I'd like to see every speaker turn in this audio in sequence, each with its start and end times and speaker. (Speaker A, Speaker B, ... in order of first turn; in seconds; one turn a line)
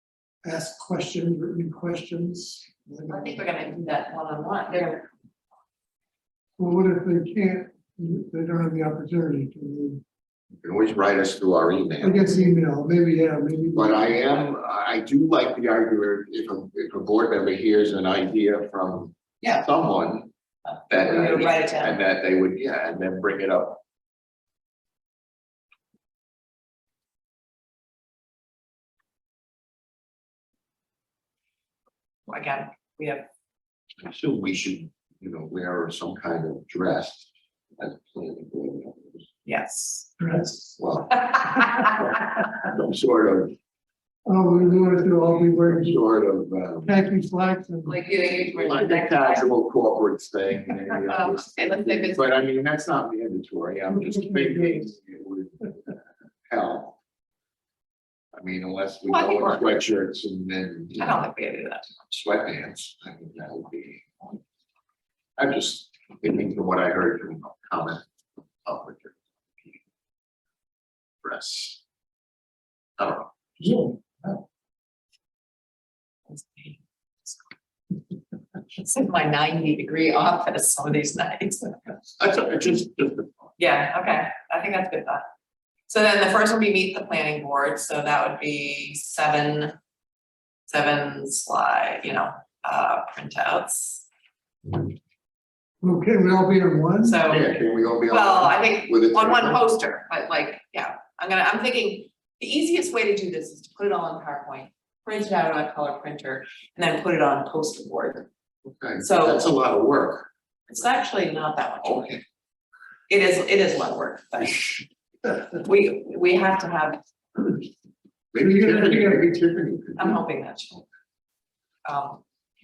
Speaker A: 0.4-3.4
Speaker B: 3.1-5.1
Speaker A: 6.6-10.0
Speaker C: 10.6-12.3
Speaker A: 12.0-14.2
Speaker C: 13.7-20.3
Speaker B: 20.7-22.0
Speaker C: 20.9-23.8
Speaker B: 32.3-33.3
Speaker C: 34.0-39.3
Speaker B: 39.5-40.1
Speaker A: 40.2-40.8
Speaker C: 40.8-43.6
Speaker B: 41.5-41.9
Speaker A: 44.3-46.0
Speaker C: 44.7-47.0
Speaker A: 46.8-48.0
Speaker B: 47.9-49.5
Speaker C: 48.5-57.0
Speaker B: 50.9-52.3
Speaker A: 53.9-54.8
Speaker C: 58.3-61.2
Speaker B: 59.1-59.7
Speaker B: 61.0-62.2
Speaker C: 62.1-64.4
Speaker C: 65.4-68.1
Speaker C: 68.7-69.8
Speaker C: 71.2-71.8
Speaker C: 73.0-73.3
Speaker A: 73.6-74.4
Speaker B: 76.3-77.5
Speaker B: 78.8-81.8
Speaker C: 82.2-83.5
Speaker B: 83.6-85.2
Speaker B: 85.9-89.7
Speaker B: 90.7-94.1
Speaker A: 95.8-97.2
Speaker B: 97.0-108.3
Speaker C: 97.3-99.6
Speaker C: 108.7-110.3
Speaker B: 109.0-109.5
Speaker B: 110.7-112.2
Speaker C: 111.8-112.2
Speaker B: 113.1-114.8
Speaker B: 115.5-117.0
Speaker C: 118.3-120.2
Speaker A: 118.4-119.3
Speaker B: 120.0-120.8
Speaker B: 121.8-122.2